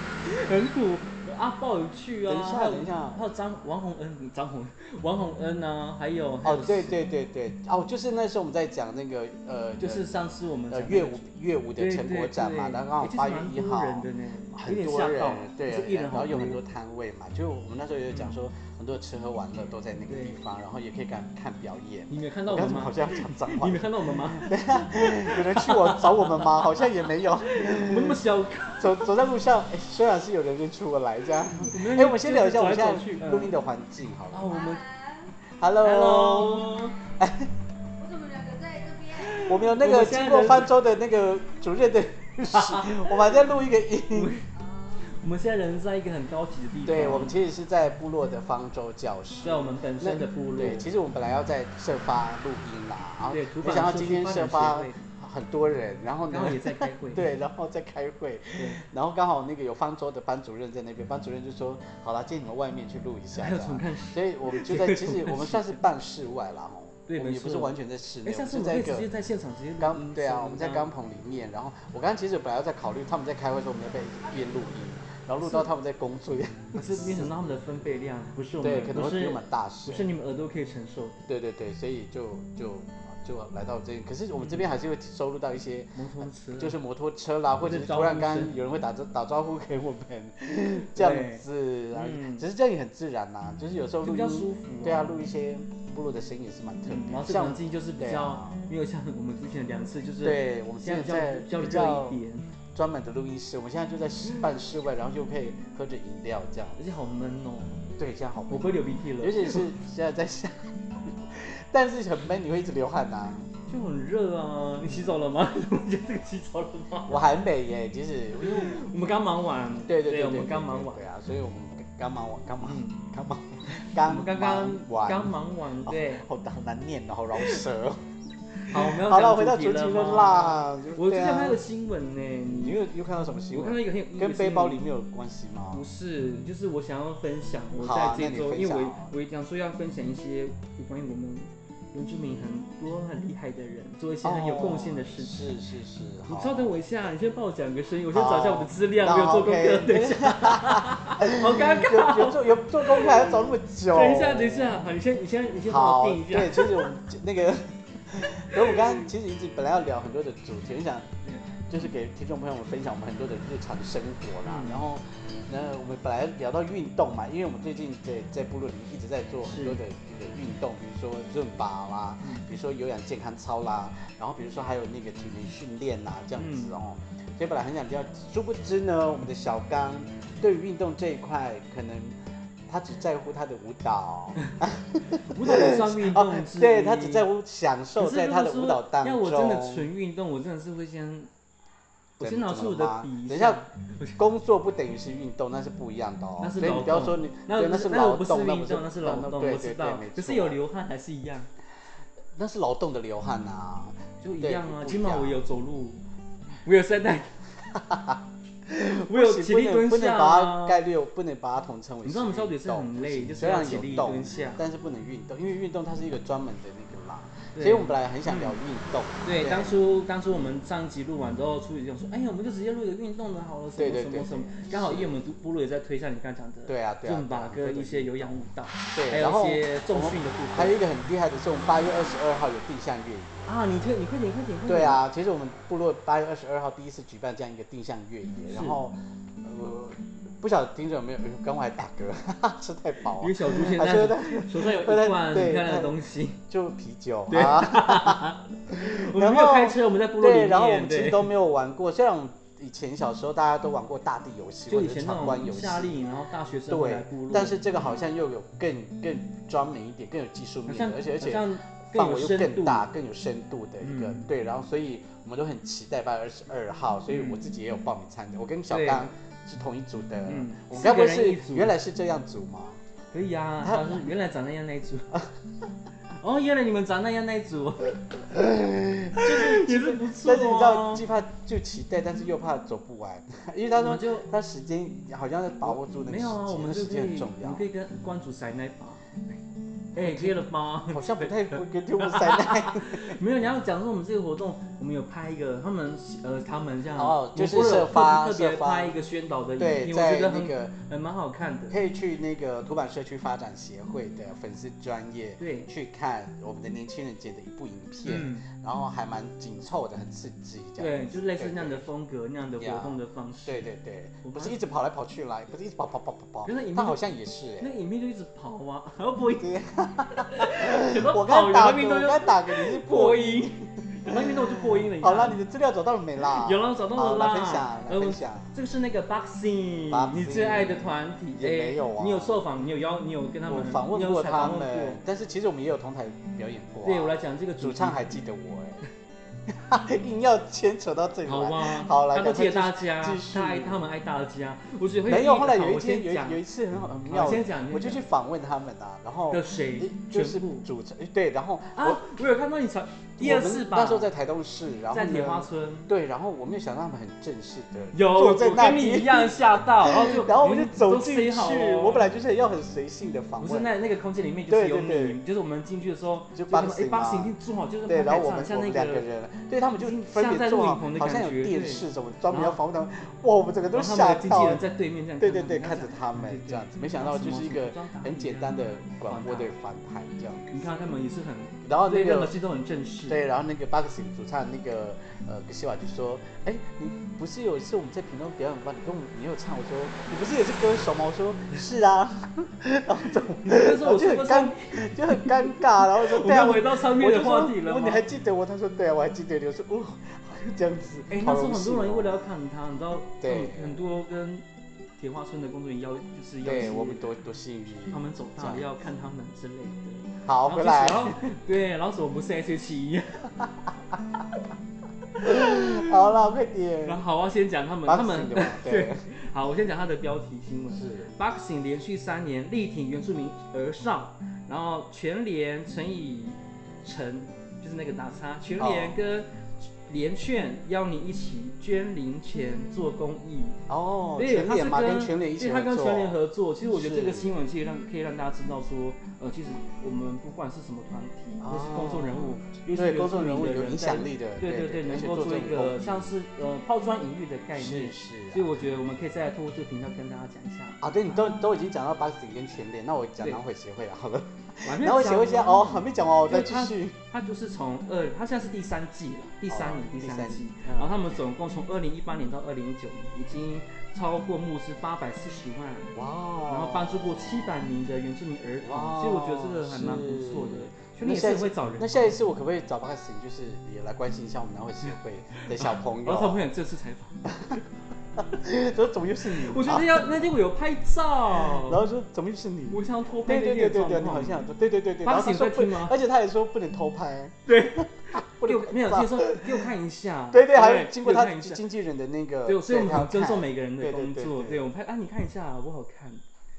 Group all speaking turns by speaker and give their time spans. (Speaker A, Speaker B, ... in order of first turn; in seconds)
Speaker A: 0.2-7.0, 9.8-16.6, 18.1-18.4, 20.1-20.4, 22.1-26.7, 27.4-29.1, 31.6-33.5, 34.3-34.8, 35.8-37.0, 39.3-40.8, 42.5-43.3, 44.1-44.5, 45.0-47.4, 49.4-50.9, 53.3-55.0, 56.3-57.3, 58.5-58.8, 63.3-65.8, 67.1-70.9, 75.4-75.7, 76.7-81.3, 84.4-84.7, 85.9-86.8, 87.6-88.5, 90.9-92.5, 94.0-95.2, 96.8-102.5, 106.8-107.8, 108.5-109.7, 113.7-117.2, 118.4-121.0, 122.6-123.1, 123.9-126.2, 128.7-132.8, 133.5-134.8, 135.7-145.4, 146.3-153.3, 153.9-156.8, 164.4-164.8, 169.4-169.8, 176.4-176.8, 185.3-187.3, 188.0-191.3, 192.2-194.2, 196.4-201.5, 204.2-206.0, 206.6-207.3, 208.8-210.8, 212.0-214.6, 217.5-218.6, 219.2-230.8, 233.4-235.0, 238.5-238.8, 243.2-246.4, 247.3-251.3, 254.7-258.0, 260.7-262.9, 263.8-264.3, 267.1-267.4, 268.7-269.1, 270.2-271.7, 273.1-275.2, 276.1-278.2, 279.1-281.0, 283.7-284.3, 285.6-289.4, 289.9-301.8, 305.4-305.7, 308.0-308.5, 310.8-313.6, 314.2-314.6, 316.4-317.0, 317.6-319.5, 320.1-325.4, 326.3-335.0, 336.8-338.2, 341.2-346.4, 347.1-348.0, 349.3-350.6, 351.8-354.1, 354.9-355.9, 357.9-362.1, 363.4-369.0, 369.8-372.6, 373.7-379.5, 380.5-383.2, 393.4-398.0, 401.1-404.4, 405.0-407.0, 407.9-413.4, 415.2-415.9, 416.8-433.6, 434.2-451.2, 454.6-466.0, 466.5-472.1, 475.6-477.3, 479.3-481.8, 482.7-484.5, 485.0-486.0, 487.5-491.6, 492.4-496.2
Speaker B: 2.3-3.2, 6.4-10.2, 10.7-34.6, 35.5-37.5, 39.4-44.4, 46.8-69.1, 69.8-77.3, 78.6-80.1, 81.3-98.6, 100.2-102.2, 102.7-106.8, 108.0-113.5, 117.1-118.8, 119.9-128.0, 128.6-131.6, 132.6-135.8, 137.8-139.1, 144.2-146.7, 148.1-154.8, 155.7-161.1, 161.7-189.9, 192.2-193.6, 194.2-200.6, 202.3-205.4, 207.7-219.8, 223.8-225.2, 226.7-228.4, 228.9-233.5, 234.7-256.1, 256.7-272.8, 273.6-274.1, 278.7-287.6, 289.9-293.2, 296.9-299.0, 299.6-300.8, 301.7-311.9, 312.6-317.7, 319.4-328.5, 329.9-330.8, 331.4-332.5, 333.4-338.8, 339.5-343.8, 345.1-352.0, 353.2-363.7, 364.5-365.2, 366.3-367.3, 367.9-374.6, 375.2-380.7, 381.6-382.4, 383.1-402.1, 403.2-403.8, 406.4-408.6, 410.2-411.2, 415.2-417.0, 417.8-419.0, 420.7-421.1, 428.6-429.0, 433.7-437.3, 441.4-446.1, 447.5-448.5, 450.8-457.0, 459.5-461.2, 465.9-467.6, 468.6-476.4, 477.3-477.6, 478.2-480.1, 481.3-489.6, 490.3-494.6
Speaker C: 34.5-35.3, 38.0-39.4, 44.5-45.1, 74.2-74.8